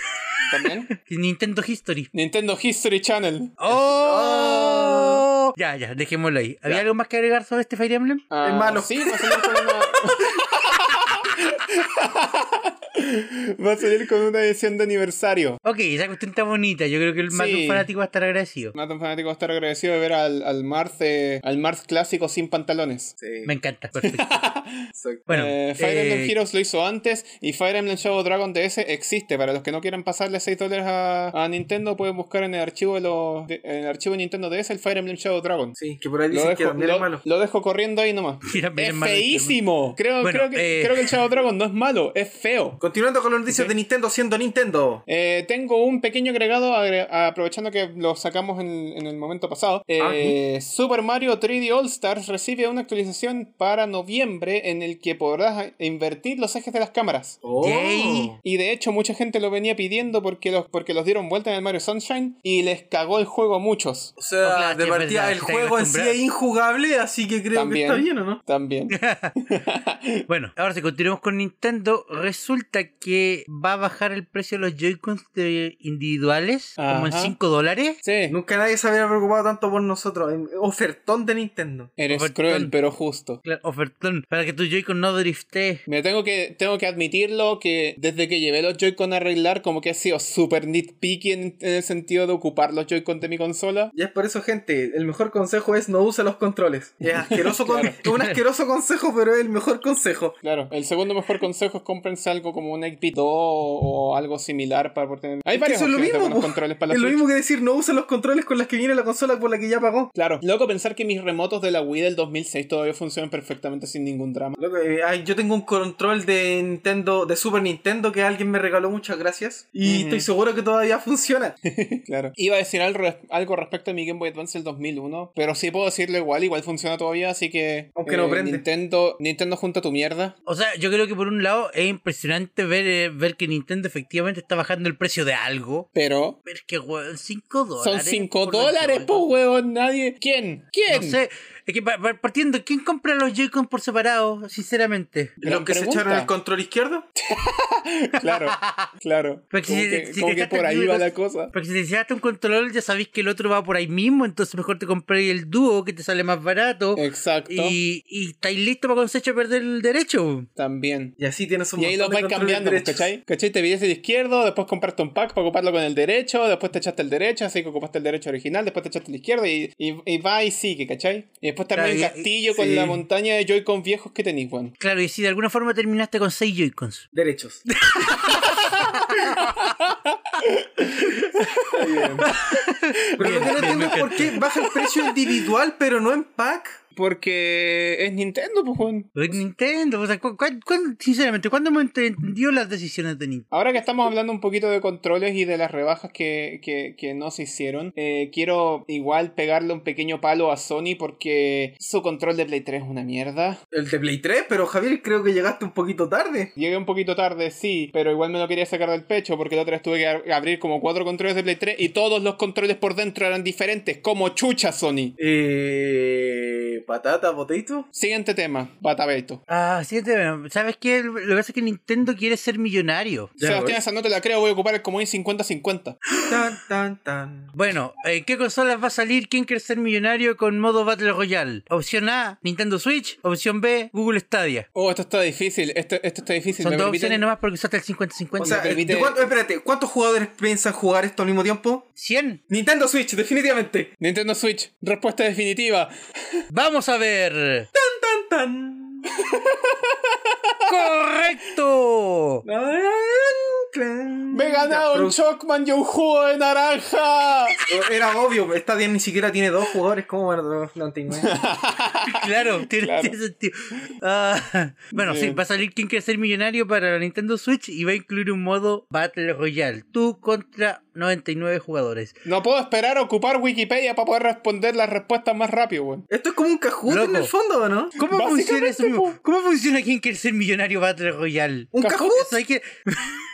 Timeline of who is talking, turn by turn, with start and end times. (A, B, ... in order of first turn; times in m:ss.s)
0:00.3-0:02.1 A
0:00.5-0:00.9 B
0:02.1-0:03.6 B
0:03.6-0:08.3 A
0:03.7-0:05.2 C
0:08.3-0:15.6 B
0:08.4-0:10.4 C
0:15.6-0:18.7 A
0:17.3-0:17.9 B
0:18.7-0:23.1 B
0:23.2-0:23.5 C
0:23.4-0:24.4 A
0:24.0-0:35.8 B
0:24.9-0:25.3 C
0:25.3-0:26.3 A
0:35.8-0:37.2 C
0:36.3-0:42.8 B
0:38.5-0:39.6 A
0:40.2-0:41.1 A
0:42.8-0:45.0 C
0:43.5-0:43.7 B
0:45.1-0:57.4 B
0:50.0-0:50.4 C
0:57.4-0:58.4 C
0:57.6-0:58.3 A
0:58.4-1:04.1 B
1:04.2-1:08.4 C
1:04.4-1:06.2 A
1:07.5-1:10.3 B
1:08.9-1:09.3 A
1:10.3-1:18.0 A
1:16.8-1:17.3 B
1:18.0-1:18.4 B
1:18.3-1:21.9 C
1:22.0-1:23.4 B
1:22.1-1:22.7 A
1:23.4-1:25.8 A
1:25.8-1:33.9 B
1:33.9-1:40.4 C
1:37.0-1:38.0 B
1:38.0-1:38.4 A
1:40.4-1:47.2 B
1:45.5-1:50.1 C
1:50.1-1:54.6 B
1:54.6-2:01.6 C
1:59.8-2:00.3 B
2:01.6-2:10.3 B
2:08.0-2:08.6 C
2:10.4-2:15.9 A
2:15.9-2:16.4 B
2:16.4-2:19.2 A
2:17.8-2:21.2 B
2:20.9-2:25.4 A
2:25.4-2:26.3 B
2:25.4-2:27.1 C
2:27.2-2:31.5 B
2:28.2-2:28.9 A
2:29.5-2:40.5 A
2:36.9-2:37.8 B
2:40.6-2:41.2 B
2:41.2-2:43.1 C
2:41.8-2:54.7 B
2:51.7-2:52.3 A
2:52.5-2:53.0 C
2:54.8-2:57.1 A
2:57.1-2:57.7 C
2:57.8-2:59.8 A
2:58.2-3:02.4 B
3:01.7-3:02.3 C
3:02.2-3:04.4 A
3:03.2-3:05.1 B
3:03.2-3:06.8 C
3:06.9-3:09.4 B
3:09.2-3:13.4 A
3:13.5-3:23.6 B
3:23.7-3:26.5 C
3:26.6-3:35.2 B
3:35.2-3:37.9 C
3:37.9-3:39.4 B
3:39.5-3:43.3 A
3:43.4-3:43.8 C
3:43.4-3:46.0 B
3:46.3-3:47.5 C
3:47.5-3:54.7 A
3:54.7-3:57.2 B
3:56.6-3:58.8 A
3:58.4-3:59.3 B
3:58.4-4:01.8 C
4:02.0-4:02.4 A
4:02.5-4:03.9 C
4:04.0-4:05.9 B
4:06.5-4:07.7 A
4:07.7-4:09.1 C
4:09.2-4:10.9 B
4:10.7-4:12.4 A
4:12.4-4:15.2 C
4:14.3-4:17.6 B
4:17.7-4:21.3 C
4:21.1-4:23.2 B
4:22.1-4:32.1 A
4:24.9-4:25.4 B
4:32.2-4:36.0 B
4:36.1-4:38.0 C
4:36.9-4:37.3 A
4:38.0-4:43.2 A
4:38.0-4:39.2 B
4:41.7-4:42.3 C